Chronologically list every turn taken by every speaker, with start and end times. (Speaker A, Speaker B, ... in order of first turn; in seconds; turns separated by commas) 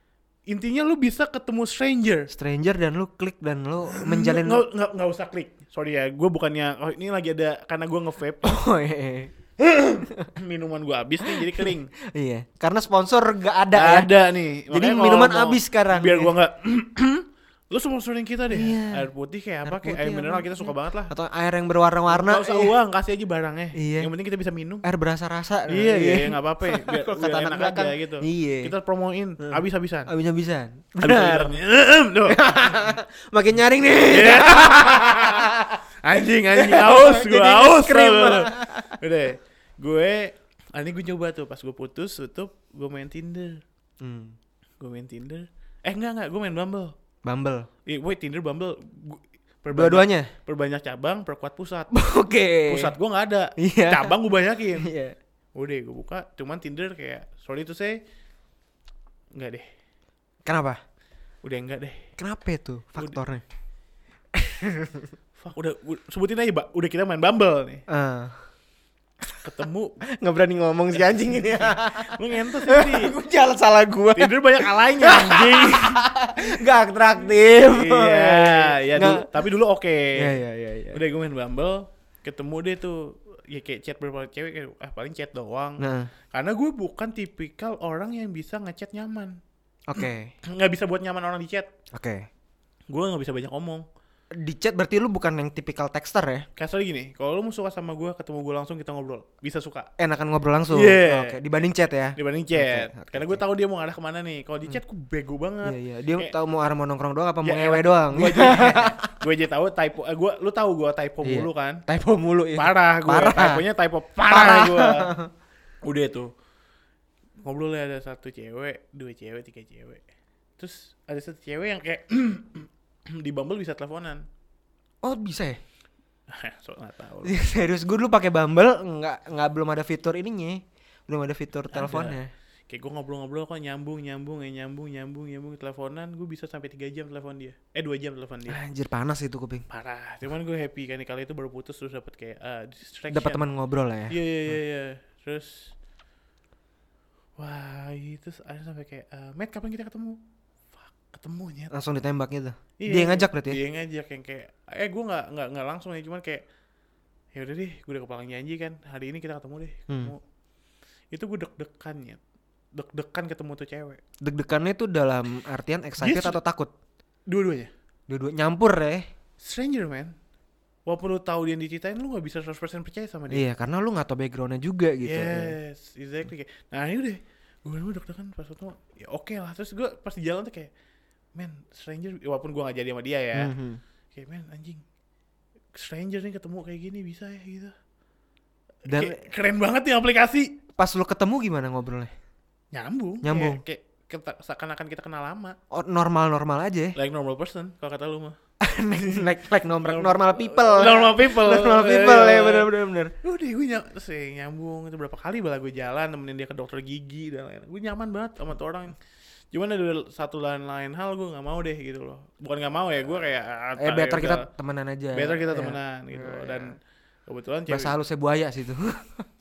Speaker A: 0.5-2.3, Speaker B: 2.3-4.6, Speaker A: 3.9-8.6, Speaker B: 8.4-9.3, Speaker A: 9.7-11.9, Speaker B: 10.0-10.3, Speaker B: 11.2-14.1, Speaker A: 13.7-21.1, Speaker B: 14.7-16.3, Speaker B: 18.5-19.1, Speaker B: 19.6-22.7, Speaker A: 22.1-24.9, Speaker B: 23.8-24.1, Speaker B: 24.8-28.7, Speaker A: 25.7-30.1, Speaker B: 29.4-31.6, Speaker A: 31.0-32.9, Speaker B: 32.3-35.8, Speaker A: 34.1-43.6, Speaker B: 36.5-39.0, Speaker B: 44.0-44.4, Speaker A: 44.8-46.9, Speaker B: 47.2-47.7, Speaker A: 47.9-51.9, Speaker B: 49.7-50.3, Speaker B: 51.9-52.9, Speaker A: 52.7-54.9, Speaker B: 53.6-54.2, Speaker B: 54.8-55.2, Speaker A: 55.6-58.0, Speaker A: 59.4-59.7, Speaker B: 60.5-60.8, Speaker A: 61.4-62.0, Speaker B: 62.2-63.4, Speaker B: 64.3-65.1, Speaker A: 65.4-67.8, Speaker B: 67.9-68.4, Speaker A: 69.4-69.9, Speaker B: 70.1-79.3, Speaker A: 71.0-73.1, Speaker A: 74.2-76.0, Speaker A: 77.6-80.4, Speaker B: 80.2-81.0, Speaker A: 80.9-89.4, Speaker B: 85.8-86.1, Speaker B: 89.9-90.3, Speaker A: 90.5-91.7, Speaker B: 91.9-92.3, Speaker A: 92.9-93.8, Speaker B: 94.3-96.5, Speaker A: 96.6-99.9, Speaker B: 100.0-103.4, Speaker A: 100.7-101.5, Speaker A: 102.2-106.3, Speaker B: 105.7-109.1, Speaker A: 107.4-111.8, Speaker B: 111.2-113.6, Speaker A: 112.6-115.1, Speaker B: 114.3-115.3, Speaker A: 115.8-116.3, Speaker A: 117.4-120.0, Speaker A: 120.6-124.2, Speaker B: 125.0-125.6, Speaker A: 126.3-127.4, Speaker B: 127.2-132.3, Speaker A: 131.7-132.2, Speaker A: 132.7-138.6, Speaker B: 138.5-139.7, Speaker A: 139.7-143.4, Speaker B: 143.1-144.2, Speaker A: 144.1-145.7, Speaker A: 147.4-150.2, Speaker A: 150.8-151.7, Speaker B: 151.7-153.6, Speaker A: 152.8-156.4, Speaker A: 157.3-160.2, Speaker B: 159.9-160.1, Speaker A: 161.1-162.2, Speaker A: 162.8-164.0, Speaker B: 164.2-166.7, Speaker A: 166.0-166.4, Speaker A: 167.3-167.7, Speaker B: 168.1-169.1, Speaker A: 169.4-170.1, Speaker A: 170.9-173.4, Speaker B: 173.3-175.6, Speaker A: 175.1-180.7, Speaker A: 181.3-183.5, Speaker B: 183.4-183.8, Speaker A: 184.2-184.8, Speaker A: 185.7-187.7, Speaker A: 188.9-190.6, Speaker B: 188.9-189.2, Speaker B: 190.8-192.1, Speaker A: 192.7-195.6, Speaker B: 193.2-193.6, Speaker B: 195.7-197.0, Speaker A: 197.0-198.4, Speaker B: 198.6-203.1, Speaker A: 199.8-202.7, Speaker A: 203.2-208.9, Speaker A: 209.5-214.5, Speaker B: 213.8-216.7, Speaker A: 215.1-217.9, Speaker B: 217.7-219.3